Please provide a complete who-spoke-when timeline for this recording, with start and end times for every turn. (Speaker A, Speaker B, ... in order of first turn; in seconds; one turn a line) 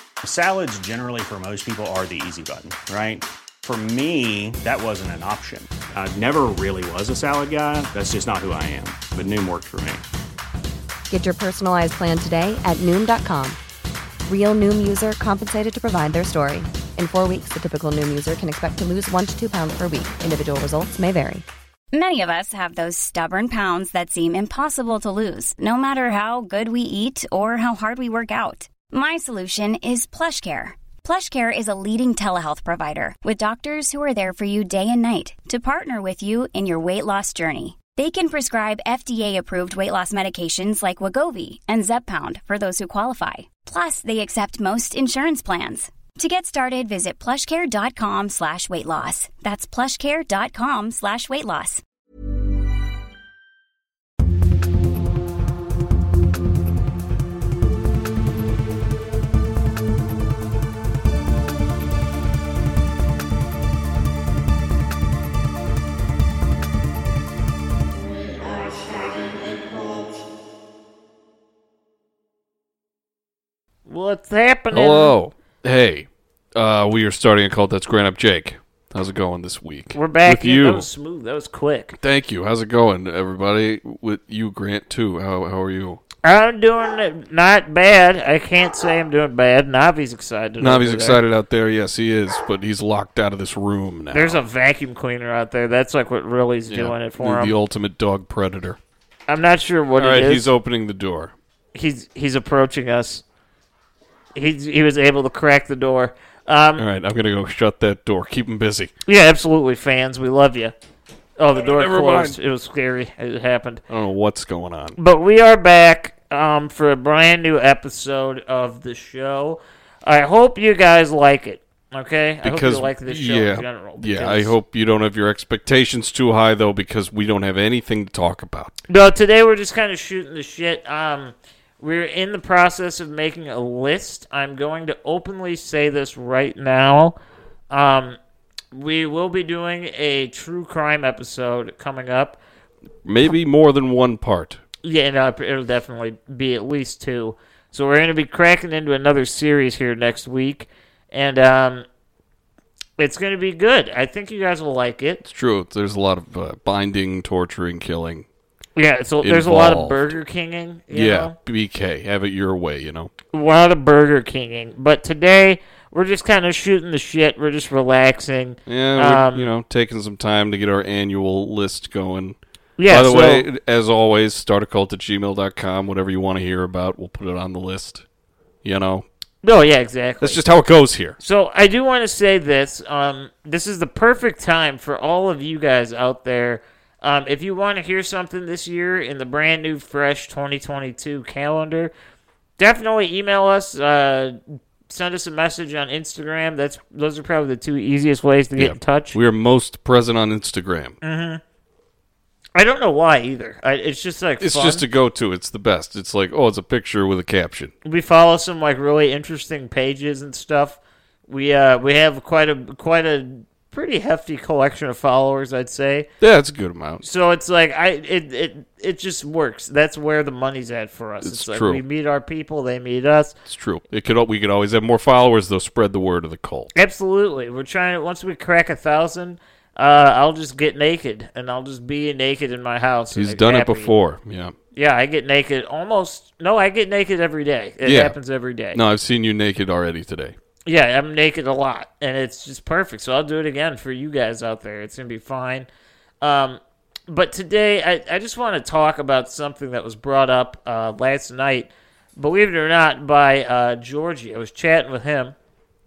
Speaker A: 0.2-10.0
Speaker B: 11.1-13.6
Speaker B: 14.2-21.4
Speaker C: 21.9-51.8
Speaker D: 73.9-75.2
Speaker E: 74.7-80.9
Speaker D: 79.9-82.0
Speaker E: 82.0-86.0
Speaker D: 86.2-91.2
Speaker E: 90.6-94.4
Speaker D: 94.1-97.5
Speaker E: 96.7-98.8
Speaker D: 99.3-100.5
Speaker E: 100.0-101.3
Speaker D: 101.7-103.2
Speaker D: 104.3-106.8
Speaker E: 106.8-108.9
Speaker D: 109.0-110.7
Speaker D: 111.4-113.8
Speaker E: 111.5-112.4
Speaker E: 113.9-115.0
Speaker D: 115.0-124.5
Speaker E: 122.4-128.7
Speaker D: 128.9-137.2
Speaker D: 137.7-138.2
Speaker D: 138.7-142.4
Speaker E: 143.0-144.6
Speaker D: 144.8-151.8
Speaker D: 153.0-155.2
Speaker E: 155.2-158.2
Speaker D: 158.8-161.3
Speaker E: 159.2-160.1
Speaker E: 160.9-163.1
Speaker D: 163.3-169.5
Speaker E: 168.7-178.0
Speaker D: 172.8-173.5
Speaker E: 178.6-179.1
Speaker D: 179.4-180.4
Speaker E: 180.2-181.2
Speaker D: 181.2-191.9
Speaker D: 192.6-199.2
Speaker E: 198.6-201.0
Speaker D: 201.0-201.4
Speaker D: 202.5-204.8
Speaker E: 204.4-207.7
Speaker D: 207.8-216.1
Speaker E: 216.2-217.0
Speaker D: 217.0-223.4
Speaker E: 221.2-221.8
Speaker E: 223.4-226.7
Speaker D: 226.7-233.9
Speaker E: 233.1-234.5
Speaker D: 234.7-238.8
Speaker E: 237.8-238.2
Speaker E: 238.7-240.3
Speaker D: 240.7-245.7
Speaker D: 246.2-255.3